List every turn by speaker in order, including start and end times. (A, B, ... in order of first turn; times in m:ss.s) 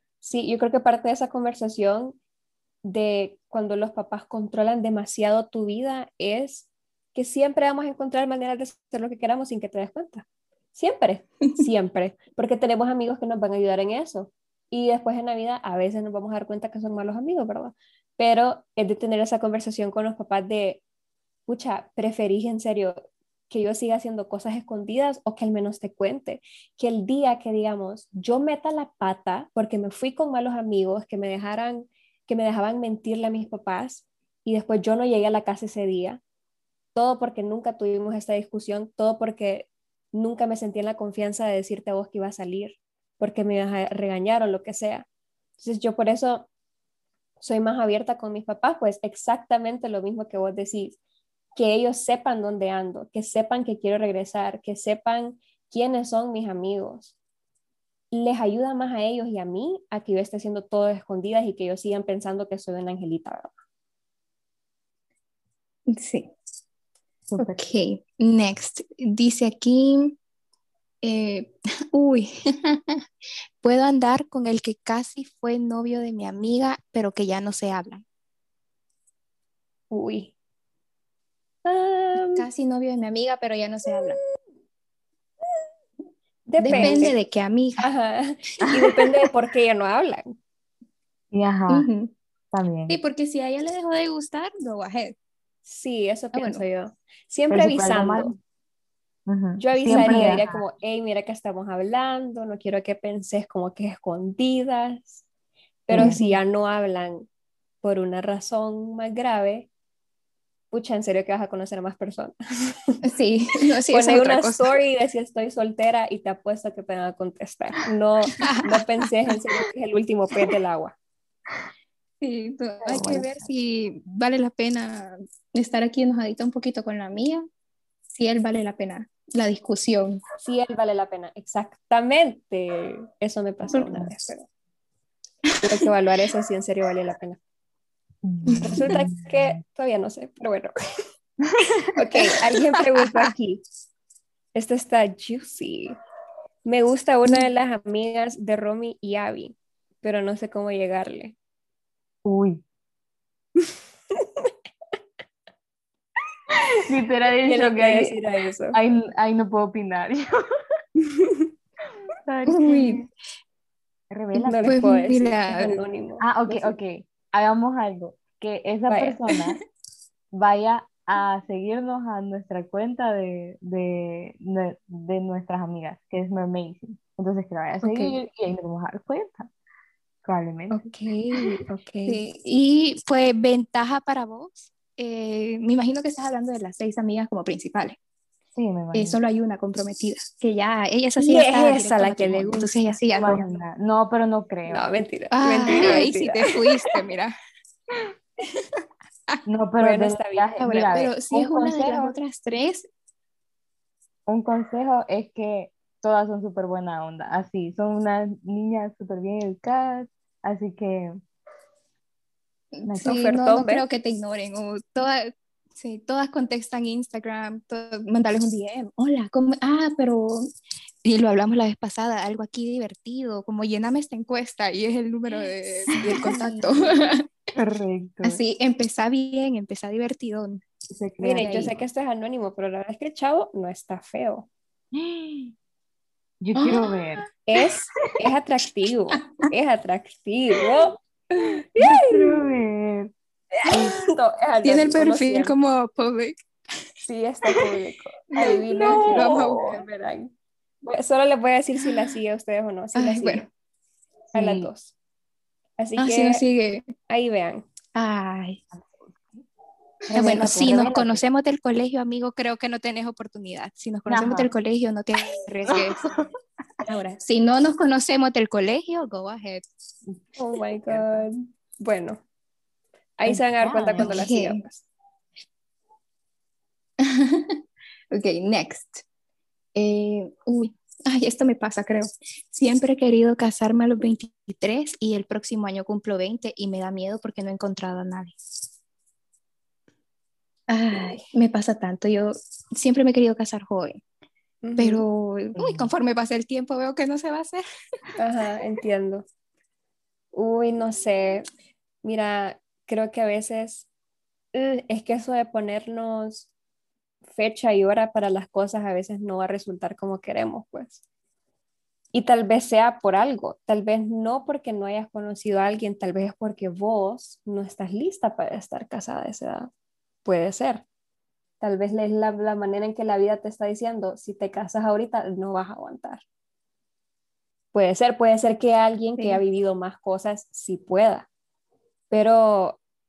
0:00.2-0:02.2 A
0:02.8-0:20.8 A
0:21.5-0:36.2 A
0:36.9-0:45.0 A
0:45.6-0:46.5 A
0:47.4-0:51.0 A
0:51.5-0:57.1 A
0:58.1-1:03.5 A
1:05.9-1:06.3 B
1:07.3-1:07.6 C
1:07.4-1:10.2 B
1:11.0-1:13.0 B
1:13.6-1:18.0 B
1:19.9-1:20.3 A
1:21.6-1:22.4 A
1:22.2-1:24.2 B
1:26.5-1:27.2 A
1:26.6-1:27.9 B
1:26.7-1:27.0 C
1:27.8-1:30.4 A
1:31.3-1:31.9 C
1:31.7-1:32.1 B
1:32.5-1:33.0 C
1:32.9-1:35.1 B
1:35.6-1:38.4 A
1:36.3-1:36.6 B
1:37.5-1:38.4 C
1:39.3-1:40.6 C
1:39.6-1:45.2 A
1:39.9-1:40.4 B
1:45.9-1:47.3 A
1:45.9-1:46.4 C
1:46.0-1:46.2 B
1:47.8-1:49.7 A
1:50.7-1:53.0 A
1:53.0-1:54.7 B
1:53.9-2:01.0 A
1:58.3-1:58.8 B
2:02.2-2:07.5 B
2:02.8-2:03.3 C
2:08.1-2:10.2 B
2:10.4-2:14.5 A
2:13.8-2:14.1 C
2:15.6-2:17.4 A
2:18.2-2:19.3 C
2:18.4-2:18.9 B
2:18.6-2:20.7 A
2:21.9-2:23.6 A
2:24.5-2:26.0 A
2:26.6-2:31.4 A
2:32.2-2:32.6 C
2:36.9-2:38.2 C
2:37.4-2:38.8 A
2:38.7-2:40.3 C
2:41.1-2:41.4 A
2:42.2-2:43.0 C
2:42.4-2:43.1 B
2:44.1-2:44.7 C
2:44.4-2:46.8 A
2:44.6-2:45.8 B
2:46.2-2:49.6 C
2:48.9-2:49.2 A
2:50.3-2:59.5 C
2:57.8-2:58.1 B
3:00.2-3:00.8 C
3:00.7-3:02.2 A
3:02.1-3:08.0 B
3:08.6-3:09.2 C
3:08.9-3:13.4 B
3:11.2-3:13.4 A
3:13.1-3:14.9 C
3:14.7-3:16.6 A
3:15.3-3:17.3 B
3:15.8-3:16.1 C
3:19.4-3:22.2 C
3:19.8-3:20.5 A
3:20.6-3:22.9 B
3:24.3-3:31.2 C
3:32.7-3:40.5 B
3:32.9-3:33.2 C
3:33.0-3:33.8 A
3:41.0-3:47.2 B
3:46.2-3:46.6 A
3:47.5-3:48.4 C
3:48.2-3:50.6 B
3:50.9-3:51.7 C
3:51.2-3:54.5 A
3:54.9-3:55.5 C
3:56.4-3:57.2 C
3:56.5-3:57.2 B
3:57.5-4:01.0 A
4:01.7-4:02.4 A
4:01.8-4:03.1 C
4:03.7-4:04.0 C
4:03.7-4:05.5 A
4:04.6-4:06.4 B
4:07.0-4:10.3 A
4:08.3-4:09.8 B
4:08.8-4:09.4 C
4:10.8-4:13.5 A
4:13.0-4:13.5 B
4:14.3-4:14.7 C
4:14.3-4:14.9 A
4:15.8-4:16.4 A
4:16.0-4:16.9 B
4:17.1-4:17.6 A
4:17.9-4:18.6 B
4:18.7-4:19.2 C
4:20.1-4:21.2 C
4:20.1-4:26.2 B
4:24.1-4:24.5 C
4:25.7-4:26.3 C
4:26.8-4:29.6 B
4:30.4-4:32.2 A
4:30.9-4:31.2 C
4:33.2-4:34.8 A
4:33.2-4:34.2 C
4:34.0-4:34.6 B
4:37.0-4:37.6 B
4:38.1-4:39.0 B
4:39.7-4:48.4 B
4:50.7-4:54.0 B
4:54.6-4:55.0 A
4:54.8-4:57.6 B
4:55.6-4:55.9 C
4:58.2-4:59.2 A
5:00.3-5:01.4 A
5:02.0-5:03.9 A
5:04.5-5:06.5 A
5:07.2-5:11.0 A
5:12.1-5:19.7 A
5:20.2-5:20.8 A
5:21.6-5:26.2 A
5:27.7-5:31.3 A
5:32.1-5:32.8 A